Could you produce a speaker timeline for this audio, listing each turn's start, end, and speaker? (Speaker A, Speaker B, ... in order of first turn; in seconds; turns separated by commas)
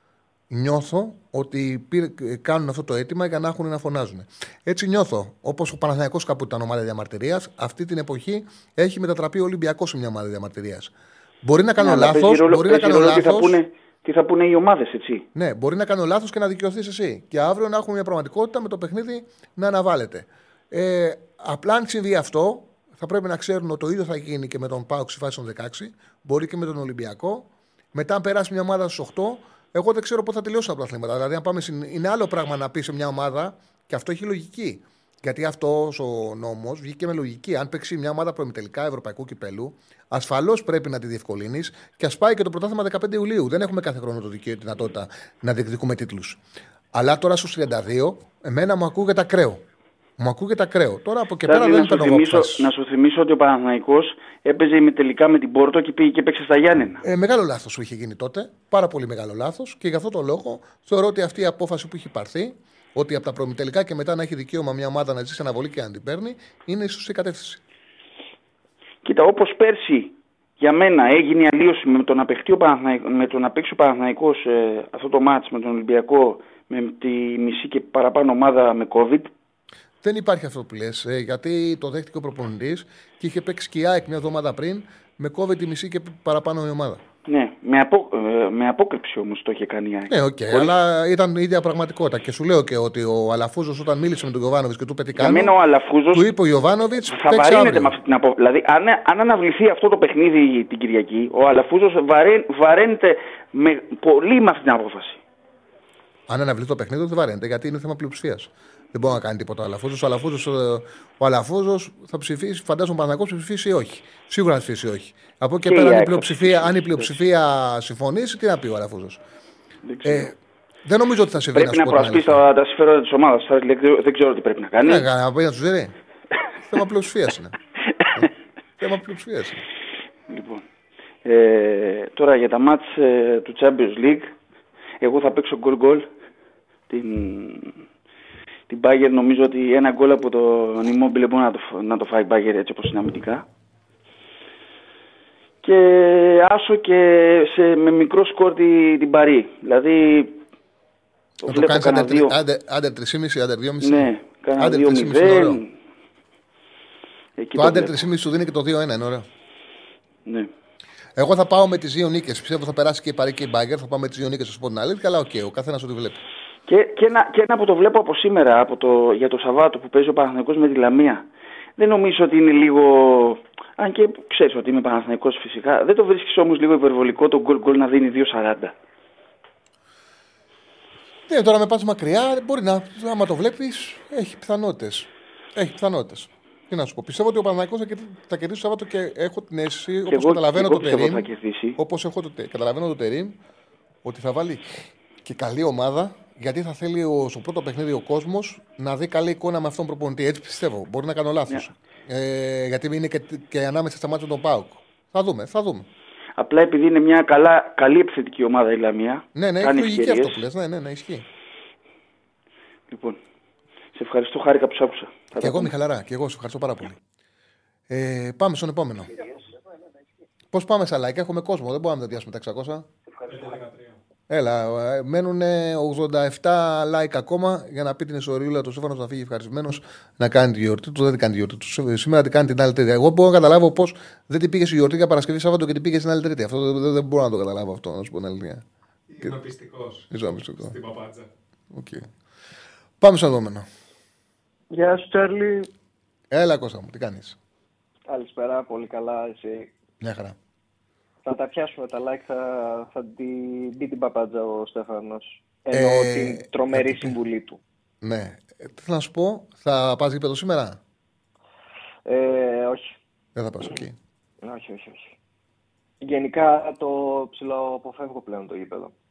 Speaker A: 0.5-10.9, Speaker A: 11.4-13.6, Speaker B: 11.8-15.3, Speaker A: 15.3-46.4, Speaker A: 46.9-49.6, Speaker A: 50.2-52.7, Speaker B: 51.5-57.0, Speaker A: 57.0-67.6, Speaker B: 69.0-79.3, Speaker A: 80.0-87.0, Speaker B: 87.3-90.7, Speaker A: 90.1-95.5, Speaker B: 95.2-96.3, Speaker A: 96.1-98.0, Speaker B: 97.1-105.2, Speaker A: 106.3-119.2, Speaker B: 115.7-117.2, Speaker B: 119.8-120.3, Speaker A: 120.0-120.3, Speaker A: 120.8-122.5, Speaker B: 121.5-125.1, Speaker A: 124.8-125.9, Speaker A: 126.7-127.6, Speaker A: 128.8-129.7, Speaker B: 130.3-130.6, Speaker B: 131.2-134.3, Speaker B: 135.0-136.1, Speaker B: 136.9-137.8, Speaker B: 138.7-143.4, Speaker B: 145.6-150.4, Speaker B: 151.4-152.4, Speaker A: 151.5-155.6, Speaker B: 153.8-155.7, Speaker B: 157.4-158.0, Speaker A: 157.6-159.3, Speaker B: 160.3-160.5, Speaker A: 161.2-166.2, Speaker B: 166.7-171.3, Speaker B: 171.8-178.7, Speaker A: 181.3-193.3, Speaker B: 190.1-191.8, Speaker A: 194.1-205.9, Speaker B: 206.4-210.4, Speaker A: 209.3-211.3, Speaker B: 212.9-213.2, Speaker B: 213.9-215.7, Speaker A: 215.4-217.0, Speaker A: 217.9-219.1, Speaker A: 220.5-222.8, Speaker C: 223.3-224.0, Speaker A: 224.3-238.6, Speaker C: 239.1-241.3, Speaker A: 240.1-240.8, Speaker A: 241.7-242.1, Speaker A: 243.0-243.7, Speaker D: 244.7-245.7, Speaker A: 246.3-247.4, Speaker D: 248.1-249.7, Speaker A: 250.0-250.4, Speaker D: 251.2-257.6, Speaker A: 255.7-257.2, Speaker A: 258.0-260.8, Speaker D: 262.1-263.0, Speaker A: 263.4-264.0, Speaker D: 264.4-265.1, Speaker D: 266.0-268.9